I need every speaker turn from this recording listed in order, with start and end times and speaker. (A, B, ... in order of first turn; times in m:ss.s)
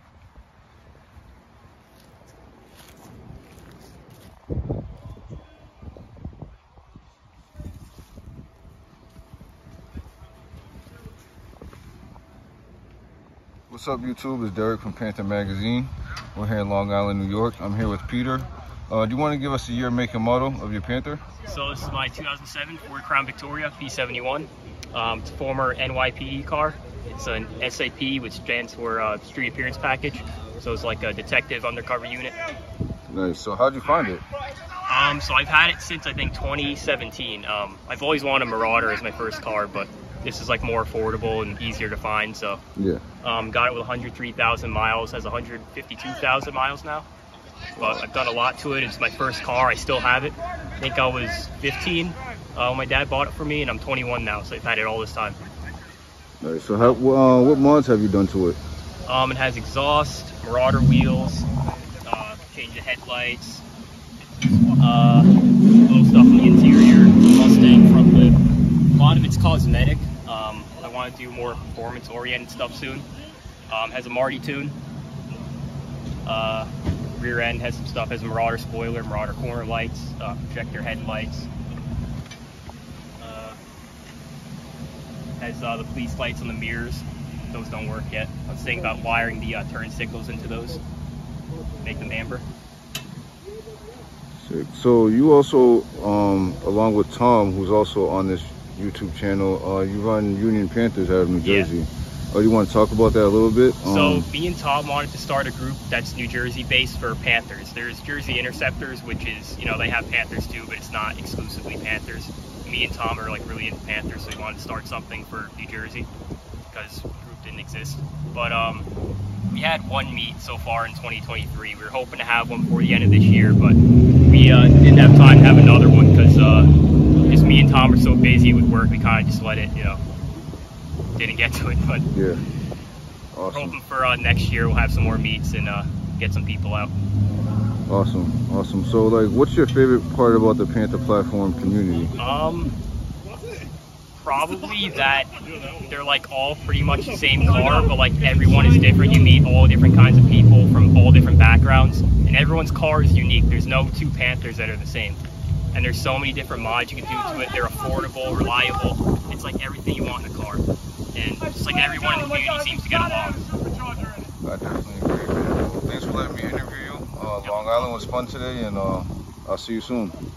0:13.7-0:21.2 A
0:21.4-0:32.4 B
0:33.1-0:34.2 A
0:34.9-0:42.6 B
0:42.8-0:43.0 A
0:43.2-0:47.1 B
0:47.8-0:48.0 A
0:47.8-0:55.4 B
0:56.4-0:58.6 A
0:59.0-1:01.5 B
1:02.0-1:03.6 B
1:04.6-1:05.3 B
1:05.8-1:08.4 B
1:08.9-1:13.1 B
1:13.7-1:14.8 B
1:16.2-1:21.5 B
1:23.2-1:23.6 B
1:25.4-1:30.8 B
1:31.8-1:32.4 B
1:34.4-1:44.3 A
1:41.4-1:41.7 B
1:43.8-1:56.1 B
1:56.7-1:58.8 B
1:59.5-2:06.7 B
2:07.3-2:10.0 B
2:11.2-2:12.0 B
2:12.1-2:12.4 A
2:13.3-2:13.8 A
2:13.5-2:16.9 B
2:17.9-2:22.1 A
2:22.2-2:22.7 B
2:24.1-2:25.3 B
2:25.8-2:35.2 B
2:35.7-2:43.4 B
2:44.4-2:50.2 A
2:47.4-2:47.7 B